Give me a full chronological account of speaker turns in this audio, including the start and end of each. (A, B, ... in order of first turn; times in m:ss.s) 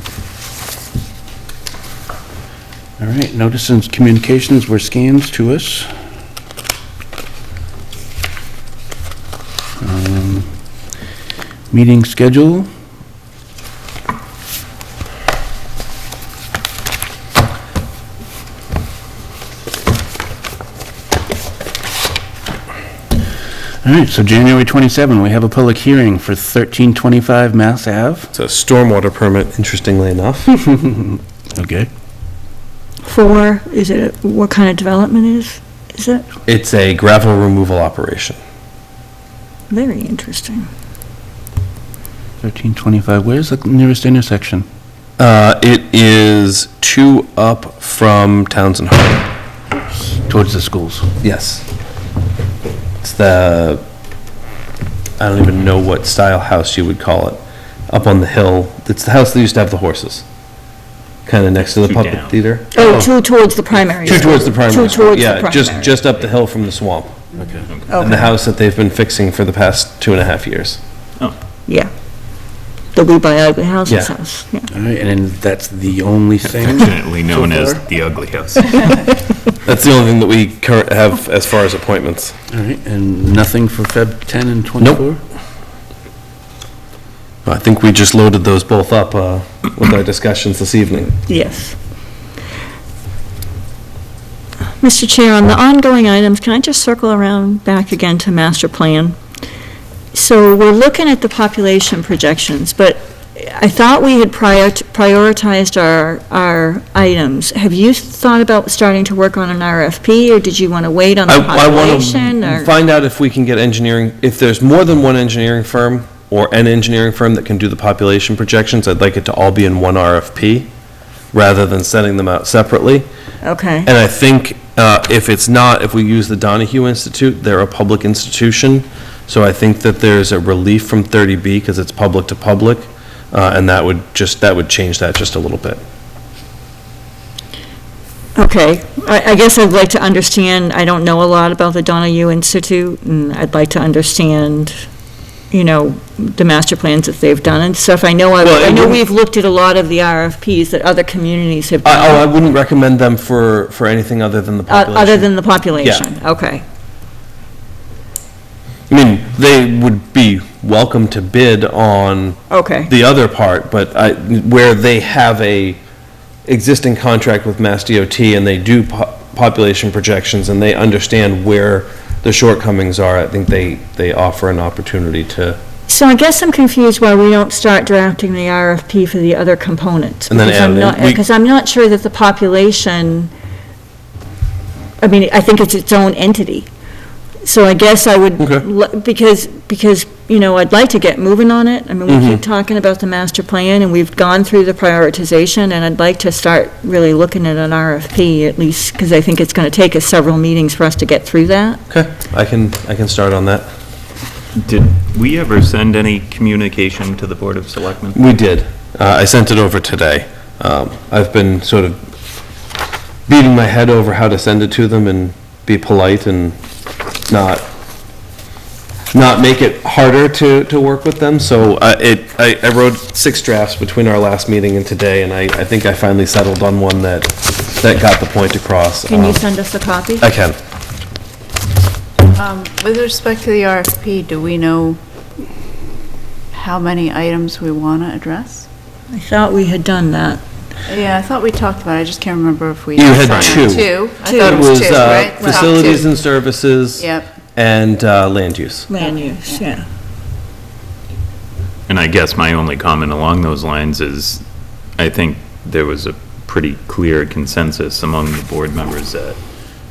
0:03.0-0:05.9 A
0:09.8-0:10.5 A
0:11.7-0:12.7 A
0:23.8-0:28.3 A
0:28.3-0:30.5 B
0:30.6-0:31.9 A
0:33.0-0:36.2 C
0:36.5-0:38.4 B
0:39.7-0:40.7 C
0:42.4-0:44.7 A
0:45.2-0:49.3 B
0:49.9-0:51.1 A
0:51.2-0:51.6 B
0:53.0-0:53.8 B
0:55.2-1:00.2 B
1:01.3-1:03.1 B
1:01.6-1:02.4 D
1:02.7-1:06.0 C
1:04.0-1:07.2 B
1:07.4-1:07.7 A
1:07.7-1:08.1 D
1:07.9-1:08.3 C
1:08.0-1:10.8 B
1:12.9-1:14.7 C
1:13.9-1:14.1 B
1:14.7-1:17.8 A
1:16.6-1:19.0 D
1:19.6-1:22.3 B
1:22.5-1:25.2 A
1:27.4-1:31.1 B
1:31.3-1:31.8 C
1:34.8-1:39.2 C
1:40.1-1:52.7 C
1:51.3-2:00.7 B
2:01.3-2:03.1 B
2:03.4-2:03.9 C
2:03.9-2:15.8 B
2:18.4-2:24.8 C
2:25.5-2:32.2 C
2:28.4-2:29.0 B
2:31.8-2:36.1 B
2:34.7-2:36.6 C
2:38.9-2:45.8 B
2:42.5-2:42.9 C
2:46.5-2:55.6 B
2:55.9-3:03.3 C
3:00.3-3:01.2 B
3:05.0-3:06.7 C
3:07.4-3:21.8 C
3:08.4-3:08.6 B
3:12.1-3:12.4 B
3:21.9-3:23.7 B
3:24.6-3:28.2 D
3:28.1-3:32.0 B
3:33.3-3:36.6 B
3:37.3-3:37.6 B
3:39.1-3:49.4 B
3:49.1-3:50.3 C
3:50.2-3:50.6 B
3:52.3-3:55.0 E
3:56.5-3:58.7 E
3:59.1-4:00.4 C
4:00.9-4:06.0 E
4:03.0-4:08.9 B
4:03.3-4:03.6 D
4:04.2-4:05.9 C
4:07.0-4:07.3 E
4:08.9-4:09.8 C
4:09.0-4:09.6 E
4:11.9-4:14.4 D
4:15.0-4:19.4 D